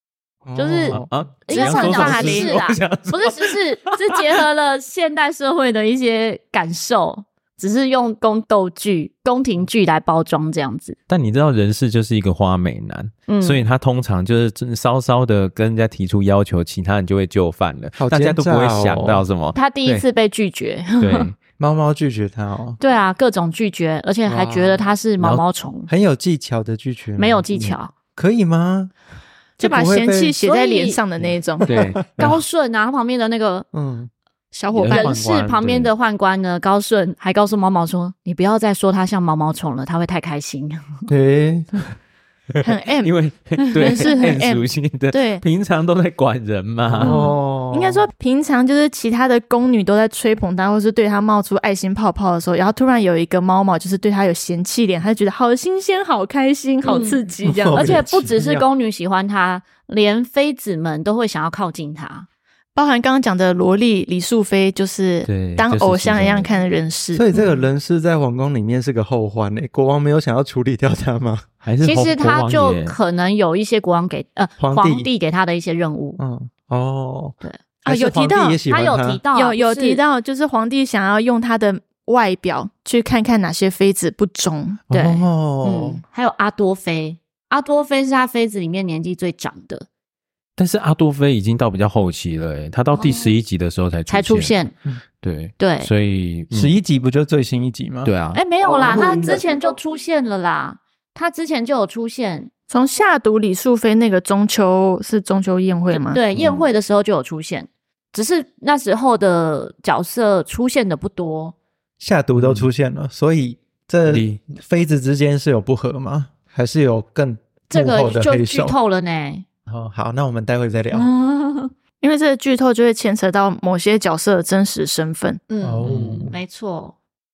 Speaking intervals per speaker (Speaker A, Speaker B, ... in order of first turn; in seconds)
Speaker A: 0.5-1.1, 2.1-2.5, 18.0-19.2, 21.6-22.8, 24.3-24.8, 25.9-28.9, 29.6-30.4, 31.7-32.4, 33.7-34.1, 41.1-41.8, 46.9-48.1, 57.4-58.6, 67.1-71.5, 74.6-75.1, 76.2-79.2, 84.9-86.0, 96.5-98.1, 98.8-99.4, 112.0-118.8, 119.7-121.1, 125.6-126.4
Speaker B: 0.6-11.0, 13.3-13.6, 19.5-21.3, 22.8-25.9, 27.2-27.9, 30.4-31.0, 32.2-33.7, 34.9-41.1, 43.8-44.2, 56.8-57.2, 57.7-62.3, 71.8-76.2, 78.7-80.0, 84.9-89.9, 93.0-93.3, 94.1-94.7, 95.6-95.9, 98.3-102.5, 105.9-111.5, 117.7-119.5, 120.9-121.7, 125.5-127.0
Speaker C: 0.9-4.4, 11.1-20.1, 21.0-21.3, 31.7-32.4, 34.7-35.9, 43.0-47.2, 65.3-66.5, 71.6-73.0, 90.6-94.5, 95.2-96.7, 98.0-98.4, 112.3-112.7, 114.1-114.4, 125.8-126.3
Speaker D: 1.5-2.5, 29.6-31.8, 34.5-35.1, 42.6-43.1, 43.8-45.4, 47.7-58.0, 62.8-67.4, 77.8-78.6, 79.3-84.8, 102.7-106.2, 122.0-125.4